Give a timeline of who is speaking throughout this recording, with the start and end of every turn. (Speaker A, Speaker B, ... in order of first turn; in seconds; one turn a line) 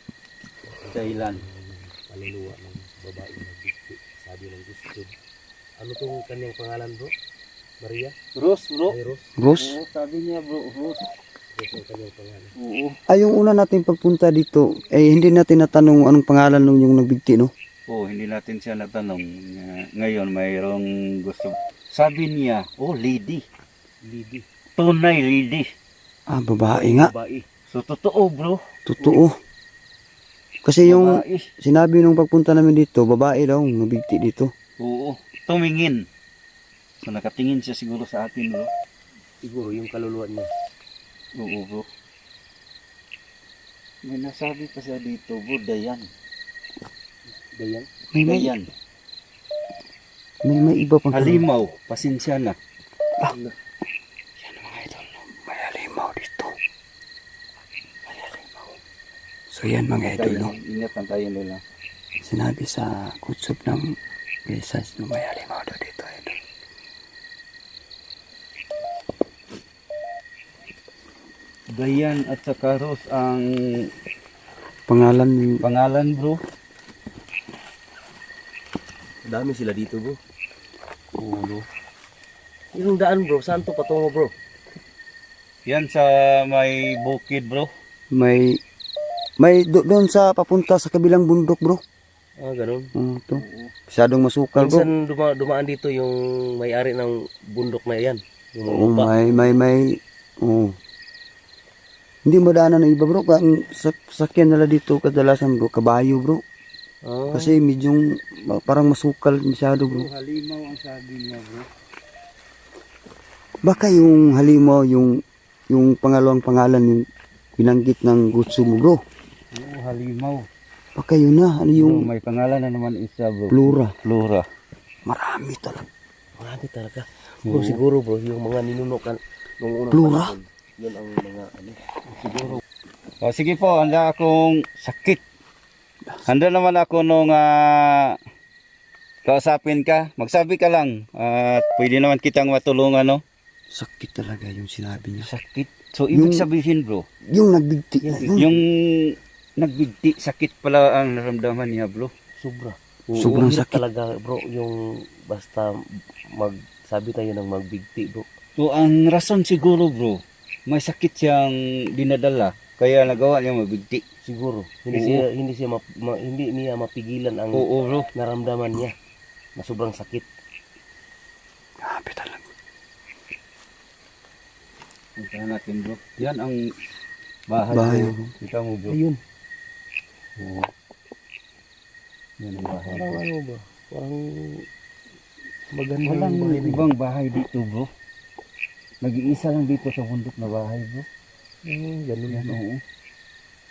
Speaker A: 0.7-5.2
Speaker B: 0.9-1.4
Speaker A: 5.8-7.1
Speaker A: 7.8-8.2
Speaker B: 8.3-9.0
Speaker A: 8.9-9.3
Speaker C: 9.4-9.8
Speaker B: 9.6-11.1
Speaker A: 11.6-12.5
Speaker B: 12.6-13.0
Speaker C: 13.1-17.5
Speaker B: 17.9-23.4
Speaker B: 24.1-25.7
Speaker C: 26.3-27.1
Speaker A: 26.7-27.5
Speaker B: 27.6-29.2
Speaker C: 28.9-29.4
Speaker C: 30.6-34.5
Speaker B: 30.8-31.5
Speaker B: 34.8-36.0
Speaker B: 37.0-38.7
Speaker A: 39.4-40.5
Speaker B: 41.4-41.9
Speaker B: 44.0-46.1
Speaker A: 47.5-47.9
Speaker C: 48.1-48.5
Speaker B: 48.2-48.7
Speaker C: 50.4-51.4
Speaker B: 51.1-52.6
Speaker B: 54.4-55.0
Speaker C: 55.2-56.6
Speaker C: 59.5-60.5
Speaker B: 60.0-61.6
Speaker C: 62.2-64.0
Speaker C: 64.5-66.4
Speaker B: 71.7-73.9
Speaker C: 74.9-75.6
Speaker B: 75.6-76.4
Speaker A: 79.3-80.2
Speaker B: 81.2-81.7
Speaker A: 82.7-84.3
Speaker B: 85.7-87.7
Speaker C: 88.1-88.6
Speaker C: 89.4-91.8
Speaker A: 92.4-92.9
Speaker C: 93.0-94.9
Speaker B: 93.4-93.7
Speaker A: 94.6-99.6
Speaker C: 98.7-100.8
Speaker C: 102.2-106.4
Speaker A: 107.0-107.6
Speaker C: 107.3-110.1
Speaker B: 109.8-111.7
Speaker C: 113.6-119.0
Speaker B: 119.5-120.5
Speaker C: 121.0-122.1
Speaker B: 121.7-124.5
Speaker C: 123.5-124.0
Speaker C: 125.0-125.9
Speaker A: 126.4-131.7
Speaker B: 127.5-127.8
Speaker C: 129.9-130.3
Speaker B: 132.1-132.6
Speaker B: 133.2-135.2
Speaker B: 136.2-138.2
Speaker B: 139.3-143.2
Speaker C: 143.7-145.3
Speaker B: 145.1-147.1
Speaker C: 146.1-146.5
Speaker C: 147.3-148.5
Speaker A: 148.0-148.5
Speaker B: 148.3-152.1
Speaker A: 152.4-155.8
Speaker B: 153.1-153.4
Speaker C: 153.2-153.8
Speaker A: 156.3-158.3
Speaker B: 158.6-164.0
Speaker A: 164.2-168.9
Speaker B: 164.9-165.2
Speaker B: 167.5-168.1
Speaker A: 169.6-170.3
Speaker C: 171.8-172.5
Speaker B: 175.2-176.6
Speaker B: 177.5-179.0
Speaker C: 177.7-178.3
Speaker A: 178.9-179.2
Speaker B: 180.4-180.7
Speaker B: 182.4-183.2
Speaker A: 182.6-184.7
Speaker A: 185.7-186.9
Speaker B: 186.0-187.9
Speaker B: 189.0-191.1
Speaker A: 191.7-192.6
Speaker B: 192.3-192.8